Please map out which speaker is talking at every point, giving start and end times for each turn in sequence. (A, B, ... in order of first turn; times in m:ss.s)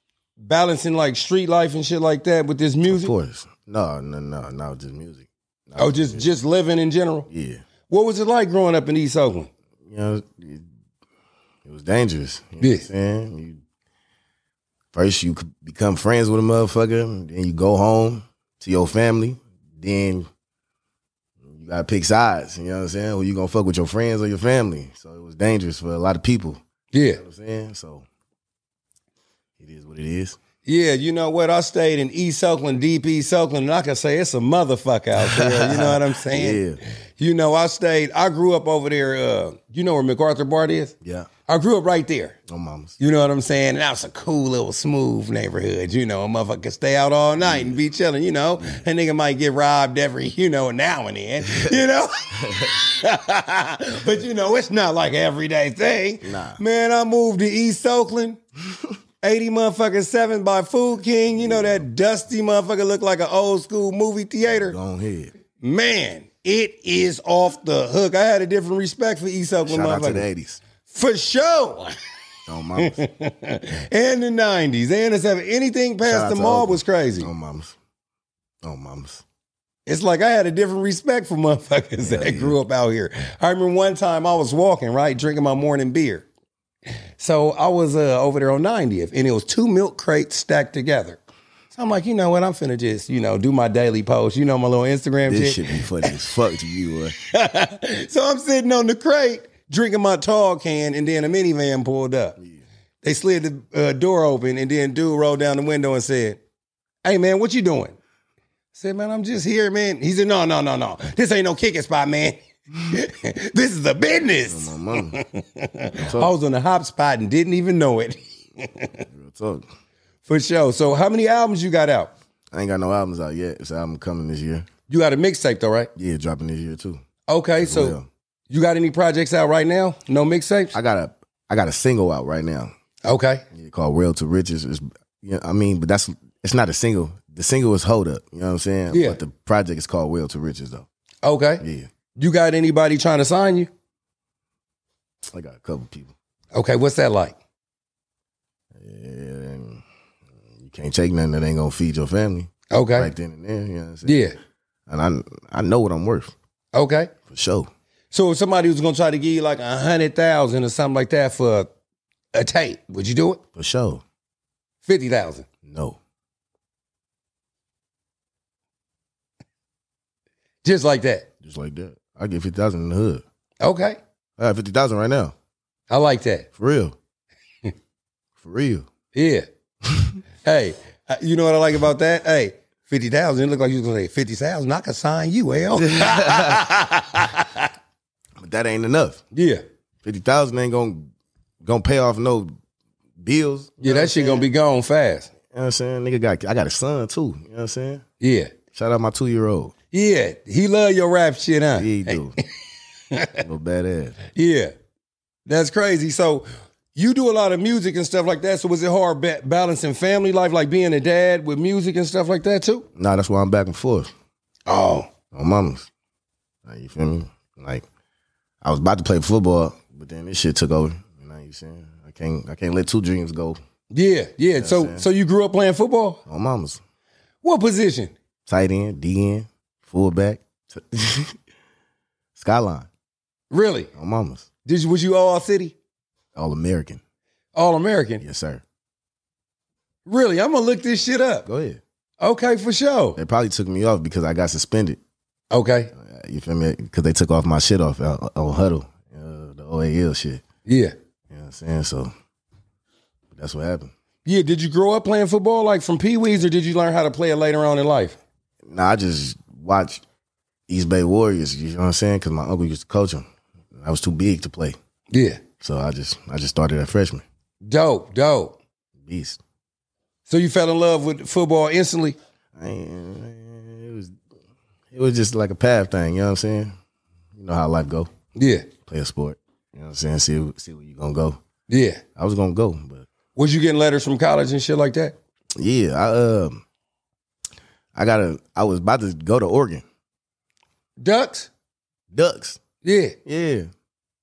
0:00.4-0:03.1 A
0:02.9-0:06.3 B
0:05.8-0:07.3 A
0:07.3-0:07.6 B
0:07.9-0:09.5 A
0:09.8-0:10.6 B
0:11.6-0:13.6 B
0:12.6-0:12.9 A
0:14.9-0:20.3 B
0:21.4-0:26.6 B
0:26.9-0:27.2 A
0:27.1-0:28.1 B
0:29.6-0:30.4 B
0:30.6-0:36.6 A
0:35.2-0:36.8 B
0:37.2-0:40.9 A
0:41.0-0:41.3 B
0:41.5-0:42.4 A
0:42.5-0:43.0 B
0:43.0-0:58.4 A
0:47.4-0:47.8 B
0:51.5-0:51.8 B
0:52.4-0:52.7 B
0:56.2-0:56.6 B
0:59.2-1:04.8 A
1:01.3-1:01.8 B
1:04.5-1:05.3 B
1:05.6-1:10.3 A
1:09.7-1:10.6 B
1:10.8-1:12.0 A
1:12.5-1:13.0 B
1:12.8-1:17.3 A
1:16.0-1:17.8 B
1:18.6-1:19.2 B
1:19.9-1:26.3 A
1:22.0-1:22.6 B
1:27.2-1:31.2 A
1:31.7-1:36.2 A
1:35.2-1:37.2 B
1:37.3-1:42.4 A
1:42.4-1:42.6 B
1:43.0-1:46.4 A
1:47.0-1:48.0 A
1:48.7-1:59.1 A
1:54.5-1:55.2 B
1:56.0-1:56.3 B
1:59.1-1:59.6 B
2:00.3-2:02.1 A
2:02.5-2:04.7 B
2:04.9-2:05.9 A
2:06.0-2:07.0 B
2:07.3-2:08.0 A
2:07.6-2:08.1 B
2:08.5-2:10.8 A
2:10.7-2:12.7 B
2:13.0-2:13.4 A
2:13.5-2:20.9 B
2:18.9-2:19.2 A
2:21.2-2:21.6 A
2:21.6-2:21.9 B
2:22.2-2:23.7 A
2:25.3-2:26.1 B
2:26.5-2:27.4 A
2:28.7-2:29.8 B
2:30.6-2:34.2 B
2:32.7-2:33.1 A
2:34.0-2:34.4 A
2:34.9-2:36.3 B
2:36.7-2:37.1 A
2:37.3-2:37.7 B
2:38.1-2:41.7 A
2:42.3-2:43.4 A
2:43.6-2:44.0 B
2:44.8-2:45.5 A
2:45.6-2:46.0 B
2:50.6-2:51.3 A
2:51.4-2:53.2 B
2:53.6-2:54.0 A
2:54.4-2:55.3 B
2:55.9-2:56.5 A
2:56.6-2:57.0 B
2:58.4-2:58.9 B
2:59.1-2:59.5 A
2:59.9-3:00.2 B
3:00.4-3:07.7 A
3:05.8-3:06.7 B
3:08.4-3:09.2 B
3:09.3-3:09.6 A
3:10.0-3:11.1 B
3:11.6-3:12.5 B
3:13.2-3:14.5 B
3:13.8-3:15.3 A
3:15.5-3:18.0 B
3:18.2-3:18.5 A
3:18.7-3:19.7 B
3:19.9-3:22.4 A
3:21.8-3:22.4 B
3:23.1-3:23.4 A
3:23.4-3:24.2 B
3:24.3-3:24.7 A
3:25.5-3:32.9 A
3:33.0-3:34.1 B
3:34.7-3:35.1 A
3:35.3-3:35.9 B
3:36.6-3:37.8 B
3:38.6-3:43.6 B
3:43.9-3:46.2 A
3:44.6-3:45.1 B
3:46.3-3:46.8 B
3:47.4-3:48.1 A
3:48.5-3:51.4 B
3:52.4-3:52.9 B
3:53.5-3:53.9 A
3:54.0-3:54.5 B
3:54.7-3:55.8 A
3:56.4-3:57.0 B
3:57.6-3:58.2 A
3:58.2-3:58.6 B
4:00.1-4:01.5 A
4:01.5-4:01.8 B
4:02.2-4:03.2 A
4:03.2-4:05.0 B
4:05.5-4:05.9 A
4:05.9-4:10.4 B
4:10.7-4:10.9 A
4:11.3-4:12.1 B
4:13.3-4:13.9 B
4:14.2-4:18.2 A
4:18.6-4:20.0 B
4:20.7-4:24.8 B
4:25.1-4:25.4 A
4:25.6-4:27.2 B
4:27.6-4:28.6 A
4:29.0-4:29.4 B
4:30.3-4:32.2 A
4:32.6-4:34.2 B
4:34.9-4:36.7 B
4:37.4-4:38.1 B
4:38.4-4:38.7 A
4:38.8-4:41.4 B
4:41.7-4:42.0 A
4:42.2-4:43.1 B
4:43.4-4:45.2 A
4:45.6-4:46.6 B
4:48.0-4:49.8 B
4:51.0-4:51.5 A
4:52.1-4:52.6 B
4:52.8-4:53.2 A
4:53.2-4:53.7 B